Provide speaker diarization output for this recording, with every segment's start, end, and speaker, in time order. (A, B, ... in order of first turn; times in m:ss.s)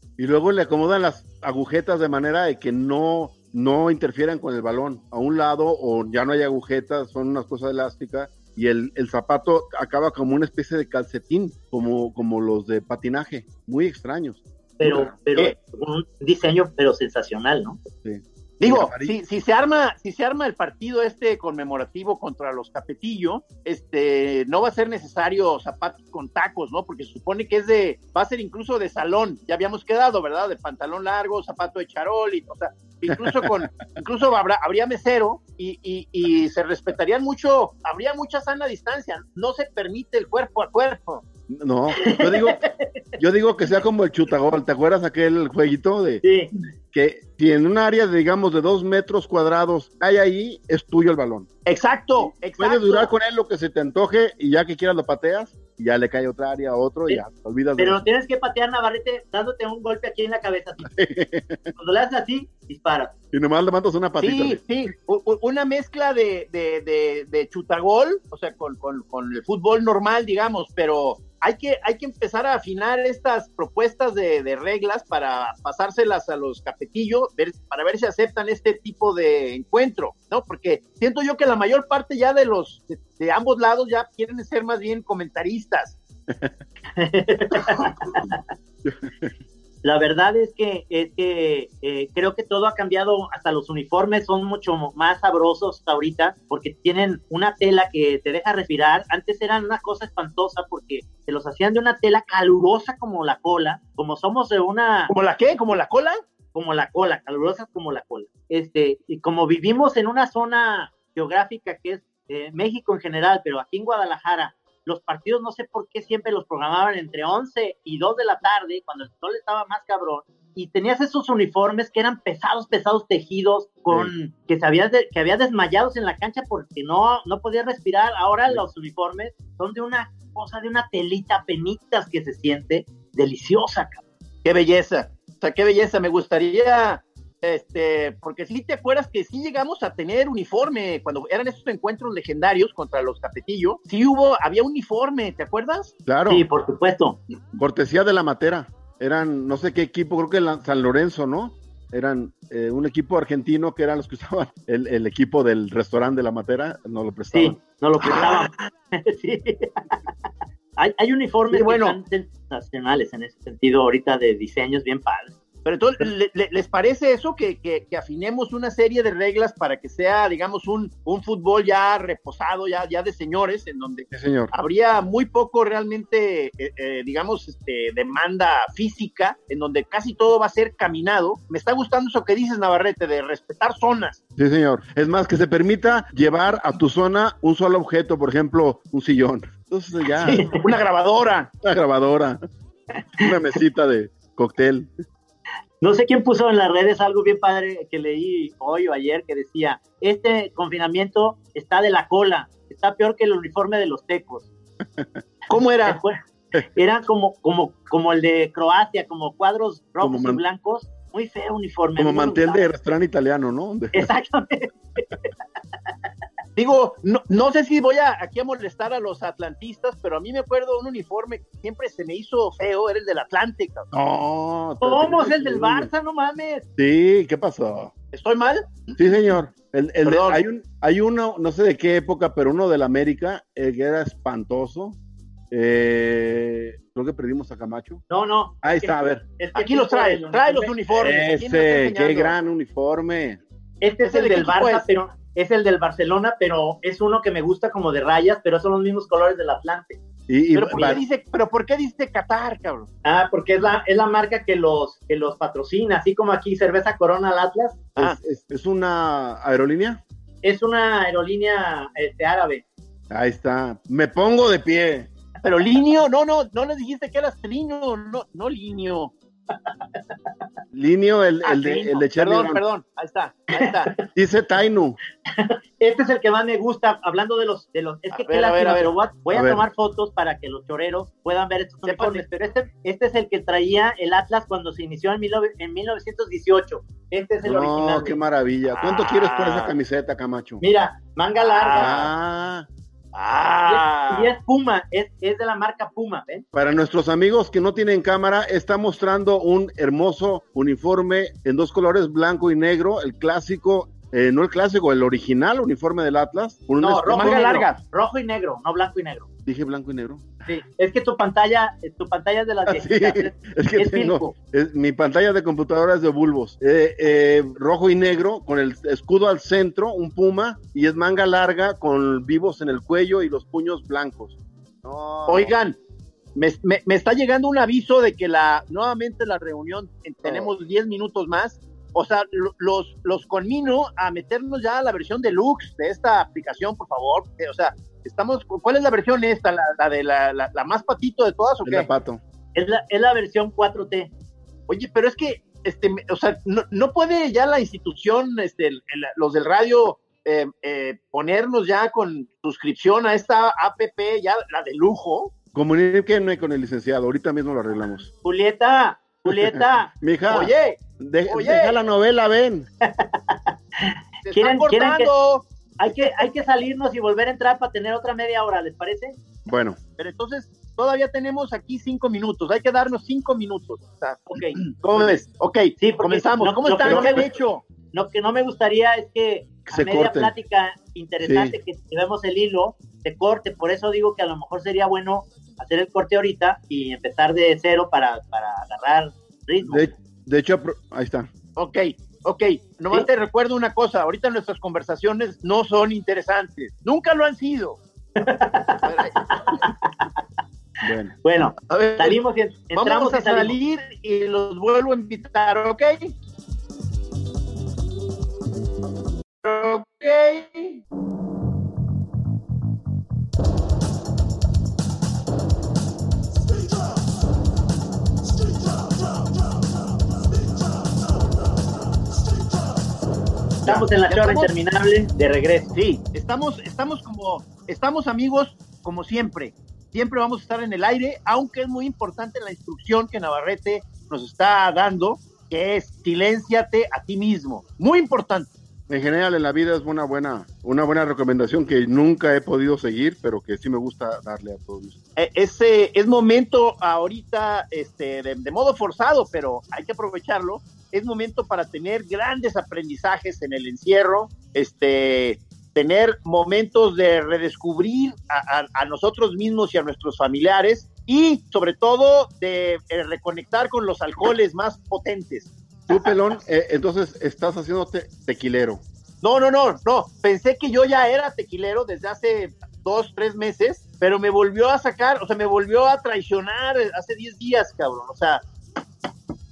0:00.2-0:15.1 A
0:14.8-0:17.8 B
0:18.0-0:19.1 A
0:18.6-0:41.2 C
0:33.1-0:33.6 A
0:41.5-0:42.6 A
0:42.0-0:42.9 B
0:43.2-0:46.2 A
0:46.2-0:46.5 B
0:46.9-0:51.5 A
0:51.6-0:53.1 C
0:52.6-0:58.0 A
0:57.8-1:00.9 B
1:00.8-1:01.7 A
1:01.8-1:03.1 B
1:03.3-1:04.6 A
1:04.2-1:26.0 C
1:27.0-1:28.2 B
1:27.7-1:28.3 A
1:28.8-1:29.3 A
1:29.8-1:45.1 B
1:45.1-1:46.2 C
1:46.5-2:14.0 B
2:14.4-2:25.9 C
2:26.1-2:26.4 A
2:26.3-2:27.2 B
2:27.5-2:38.2 A
2:37.3-2:40.0 B
2:38.2-2:38.5 C
2:40.8-2:45.3 B
2:41.5-2:42.0 C
2:45.6-3:04.2 C
2:54.1-2:54.5 A
3:04.4-3:10.5 A
3:10.2-3:10.6 B
3:10.5-3:11.5 C
3:11.6-3:12.4 A
3:13.2-3:14.9 A
3:15.8-3:24.5 B
3:24.9-3:25.2 A
3:25.5-3:26.0 C
3:25.8-3:26.2 B
3:26.7-3:32.6 B
3:30.0-3:30.4 A
3:32.0-3:34.1 A
3:33.9-3:35.3 B
3:36.6-3:43.9 C
3:43.9-3:45.9 A
3:44.8-3:46.6 B
3:46.8-3:47.9 A
3:48.1-3:48.8 C
3:49.0-3:55.0 A
3:50.0-3:50.4 C
3:55.5-3:58.0 A
3:58.1-4:00.7 B
3:58.6-3:59.2 A
3:59.5-4:02.3 C
4:00.9-4:03.4 A
4:03.8-4:10.0 B
4:04.0-4:04.8 C
4:10.3-4:11.0 A
4:10.5-4:12.9 C
4:13.0-4:17.8 B
4:18.0-4:20.0 A
4:20.4-4:22.6 B
4:23.1-4:25.1 A
4:25.4-4:29.1 C
4:30.7-4:32.6 A
4:31.4-4:33.9 C
4:34.1-4:35.0 A
4:35.3-4:48.2 B
4:38.1-4:38.9 C
4:39.3-4:39.6 A
4:41.8-4:42.2 C
4:47.4-4:50.6 A
4:49.2-4:49.7 C
4:50.6-4:52.0 B
4:51.4-4:52.1 C
4:51.8-4:52.7 A
4:53.1-4:54.3 C
4:53.7-4:56.4 B
4:56.5-5:07.5 A
5:06.8-5:09.3 B
5:07.1-5:07.8 C
5:09.4-5:10.3 A
5:10.4-5:14.3 B
5:12.7-5:25.6 A
5:25.3-5:25.8 C
5:26.4-5:41.9 C
5:30.2-5:30.5 A
5:41.6-5:42.2 A
5:42.5-5:44.1 B
5:44.7-5:55.3 C
5:55.5-5:58.1 A
5:58.2-5:59.9 B
5:59.3-6:02.7 A
6:00.3-6:01.8 C
6:02.9-6:05.1 B
6:04.2-6:05.4 C
6:05.8-6:09.2 B
6:09.4-6:09.8 A
6:10.0-6:17.6 C
6:14.3-6:14.6 B
6:15.8-6:17.2 B
6:16.8-6:17.4 A
6:17.9-6:29.9 B
6:19.6-6:20.3 A
6:21.2-6:21.6 A
6:29.6-6:31.3 A
6:31.6-6:37.8 C
6:38.2-6:39.9 B
6:38.8-6:39.6 C
6:40.8-6:41.1 A
6:41.2-6:43.5 B
6:41.7-6:42.2 C
6:42.7-6:46.1 C
6:49.4-6:50.8 C
7:03.6-7:05.7 B
7:03.6-7:04.5 C
7:05.7-7:18.5 C
7:18.9-7:25.0 A
7:25.2-7:46.1 C
7:45.9-7:48.8 A
7:49.2-7:58.4 C